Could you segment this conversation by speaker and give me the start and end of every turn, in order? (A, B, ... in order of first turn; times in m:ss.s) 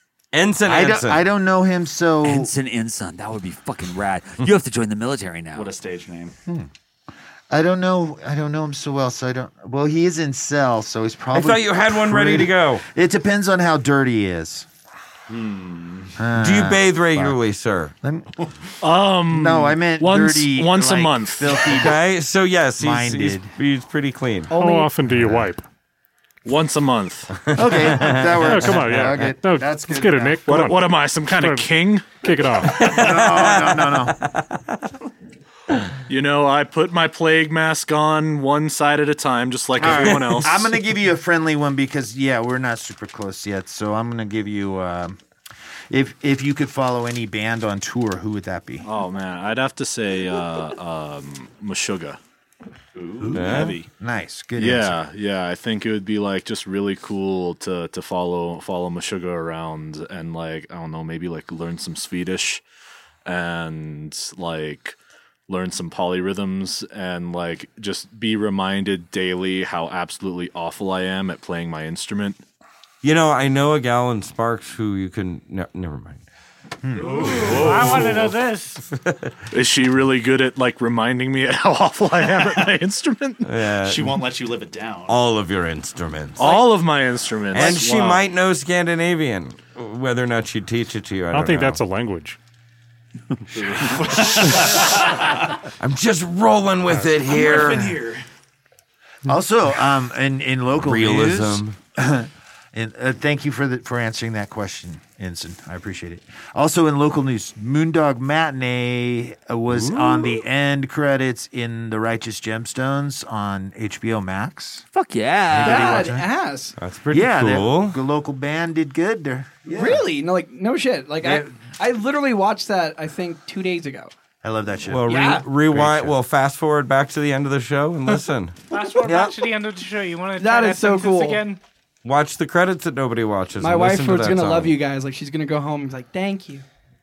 0:00.3-0:01.2 A
0:00.6-0:02.5 B
0:02.2-0:05.7 C
0:05.5-0:06.3 D
0:07.5-0:14.7 B
0:11.3-0:12.8 A
0:15.3-0:16.1 D
0:16.2-0:17.4 B
0:16.3-0:17.9 A
0:18.0-0:18.5 B
0:18.8-0:21.6 E
0:19.3-0:22.0 B
0:21.7-0:24.5 A
0:22.8-0:23.6 B
0:24.5-0:24.9 F
0:24.5-0:25.6 G
0:26.4-0:27.3 E
0:27.5-0:28.9 A
0:27.5-0:30.5 B
0:28.4-0:32.9 G
0:30.4-0:32.5 E
0:32.6-0:34.8 A
0:32.7-0:34.2 B
0:36.1-0:40.8 E
0:39.8-0:45.2 B
0:39.9-0:40.5 A
0:45.9-0:48.9 B
0:48.8-0:52.2 E
0:52.9-0:53.4 D
0:53.2-0:55.0 B
0:53.3-0:53.8 E
0:53.3-0:53.7 A
0:54.6-1:02.6 E
1:03.2-1:05.0 E
1:05.5-1:12.4 E
1:13.0-1:16.2 A
1:16.8-1:18.0 B
1:17.0-1:18.8 H
1:17.1-1:18.3 E
1:18.9-1:19.3 A
1:19.5-1:23.4 E
1:23.4-1:24.2 A
1:23.8-1:25.2 D
1:25.1-1:26.7 A
1:26.4-1:28.2 E
1:27.5-1:31.8 A
1:31.3-1:32.4 G
1:33.5-1:35.6 D
1:35.8-1:38.0 A
1:37.2-1:38.2 D
1:39.2-1:54.8 B
1:40.8-1:41.8 A
1:49.7-1:50.1 A
1:54.9-1:56.1 C
1:55.5-1:56.2 B
1:55.6-1:56.7 F
1:56.8-1:58.0 A
1:57.1-2:00.0 B
1:59.7-2:04.1 F
2:01.2-2:01.5 B
2:04.4-2:06.2 B
2:04.9-2:08.6 A
2:05.1-2:05.4 F
2:08.7-2:11.6 H
2:09.0-2:09.4 B
2:10.4-2:11.4 F
2:12.0-2:14.7 A
2:13.6-2:16.6 F